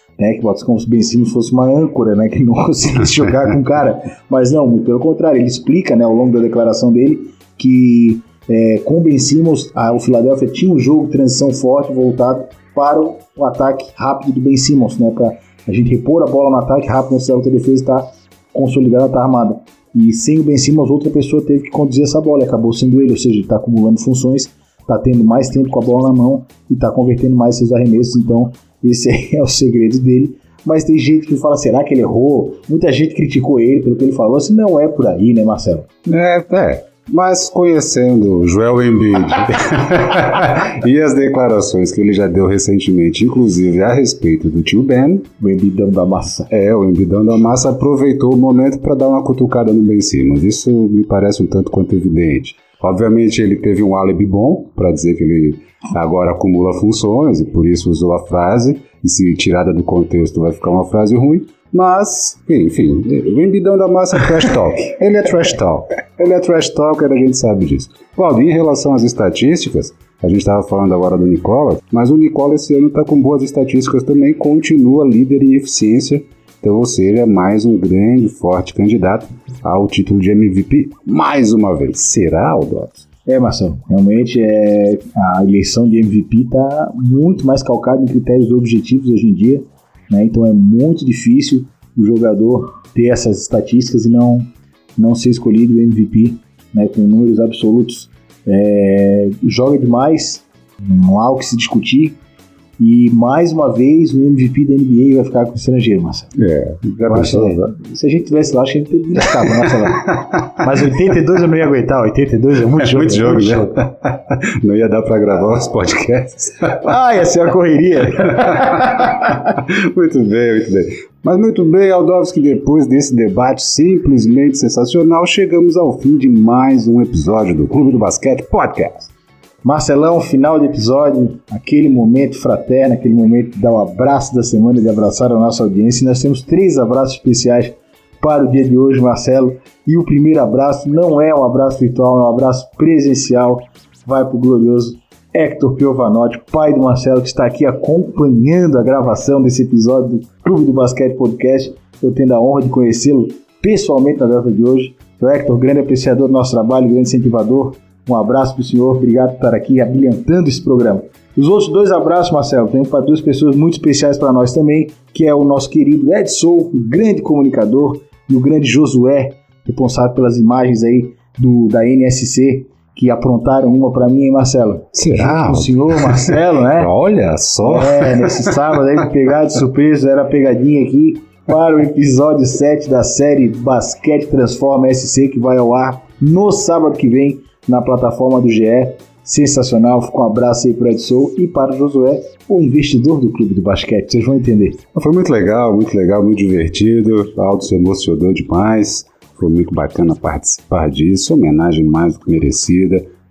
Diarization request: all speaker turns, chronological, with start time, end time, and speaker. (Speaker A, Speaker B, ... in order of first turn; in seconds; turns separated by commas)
Speaker A: 0.2-35.9, Speaker B: 36.0-45.3, Speaker A: 45.4-46.5, Speaker B: 46.5-83.1, Speaker A: 83.2-102.2, Speaker A: 102.8-106.3, Speaker B: 106.3-107.7, Speaker A: 107.0-113.8, Speaker B: 112.8-116.8, Speaker A: 116.7-119.1, Speaker B: 118.3-129.1, Speaker A: 129.6-176.9, Speaker B: 174.9-178.6, Speaker A: 177.6-194.8, Speaker B: 194.9-203.0